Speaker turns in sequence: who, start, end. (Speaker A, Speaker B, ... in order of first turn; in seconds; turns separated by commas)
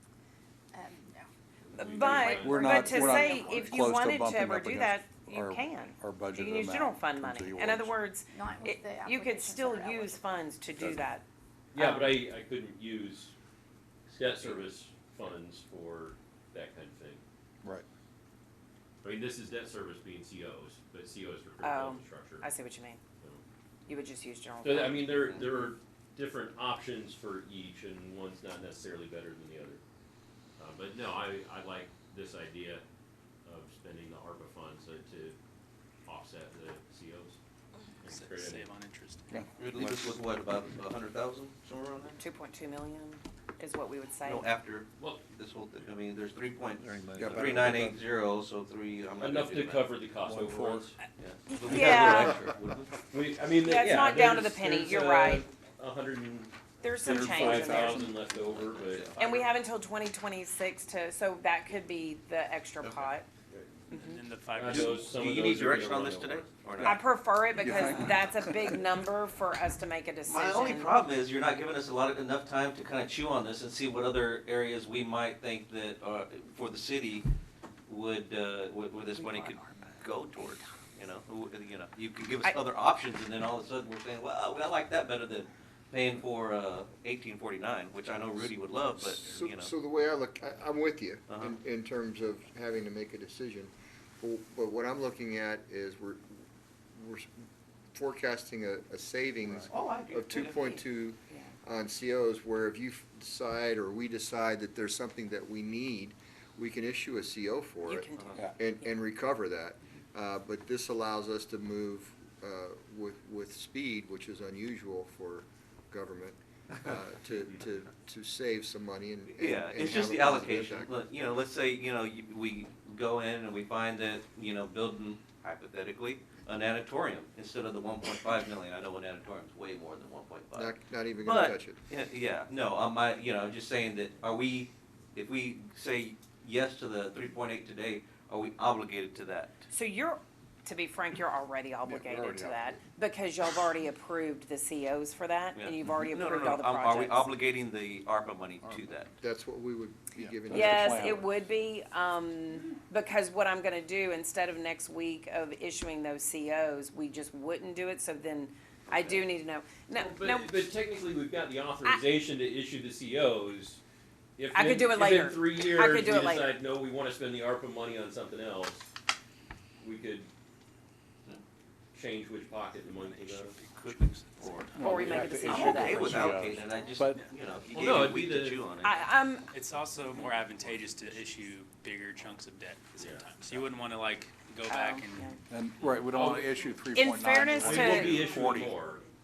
Speaker A: 0.7-1.3, Speaker B: 1.7-3.4, Speaker C: 1.7-11.2, Speaker A: 2.2-3.9, Speaker D: 2.2-7.9, Speaker A: 7.8-11.0, Speaker B: 11.7-13.3, Speaker C: 11.7-12.1, Speaker B: 14.1-17.2, Speaker B: 19.0-22.4, Speaker C: 21.6-23.0, Speaker C: 23.9-25.0, Speaker B: 24.6-29.8, Speaker B: 30.6-32.8, Speaker B: 33.5-35.4, Speaker B: 36.0-37.4, Speaker B: 38.0-38.7, Speaker E: 38.0-39.4, Speaker D: 39.3-40.0, Speaker F: 39.6-42.2, Speaker C: 42.2-44.4, Speaker F: 44.2-49.9, Speaker B: 45.0-45.3, Speaker D: 47.0-47.9, Speaker G: 47.2-47.8, Speaker B: 49.2-51.0, Speaker D: 50.2-50.9, Speaker F: 51.2-53.0, Speaker C: 51.5-52.4, Speaker B: 51.7-52.1, Speaker A: 51.7-52.2, Speaker B: 53.1-59.4, Speaker C: 53.6-55.4, Speaker C: 56.8-58.0, Speaker D: 57.0-58.2, Speaker F: 58.4-59.2, Speaker C: 59.2-63.3, Speaker C: 63.9-64.2, Speaker E: 63.9-65.2, Speaker B: 64.5-67.0, Speaker F: 64.6-67.0, Speaker C: 66.9-70.9, Speaker D: 67.6-68.7, Speaker F: 70.2-77.2, Speaker F: 77.9-89.7, Speaker C: 79.6-80.0, Speaker G: 88.8-97.3, Speaker F: 91.3-91.5, Speaker G: 97.9-120.9, Speaker D: 99.4-99.7, Speaker F: 99.7-100.8, Speaker C: 101.3-101.5, Speaker C: 107.8-108.9, Speaker F: 108.2-108.5, Speaker F: 119.3-139.6, Speaker G: 130.5-131.8, Speaker C: 139.7-147.2, Speaker D: 141.8-142.8, Speaker F: 145.5-149.1, Speaker D: 148.6-148.9, Speaker G: 149.2-151.2, Speaker D: 150.1-151.2, Speaker C: 150.6-160.6, Speaker F: 158.9-159.2, Speaker B: 159.9-163.8, Speaker B: 164.4-168.9, Speaker C: 164.5-166.5, Speaker B: 169.8-170.3, Speaker B: 171.9-173.6, Speaker E: 172.9-174.9, Speaker F: 173.8-174.7, Speaker D: 174.7-177.2, Speaker C: 174.8-176.3, Speaker F: 175.4-179.0, Speaker B: 177.7-178.6, Speaker C: 178.8-179.4, Speaker E: 179.5-185.4, Speaker B: 183.0-183.3, Speaker C: 184.7-185.4, Speaker D: 185.5-188.8, Speaker E: 186.1-186.5, Speaker C: 186.9-188.1, Speaker B: 187.6-189.0, Speaker A: 187.7-188.2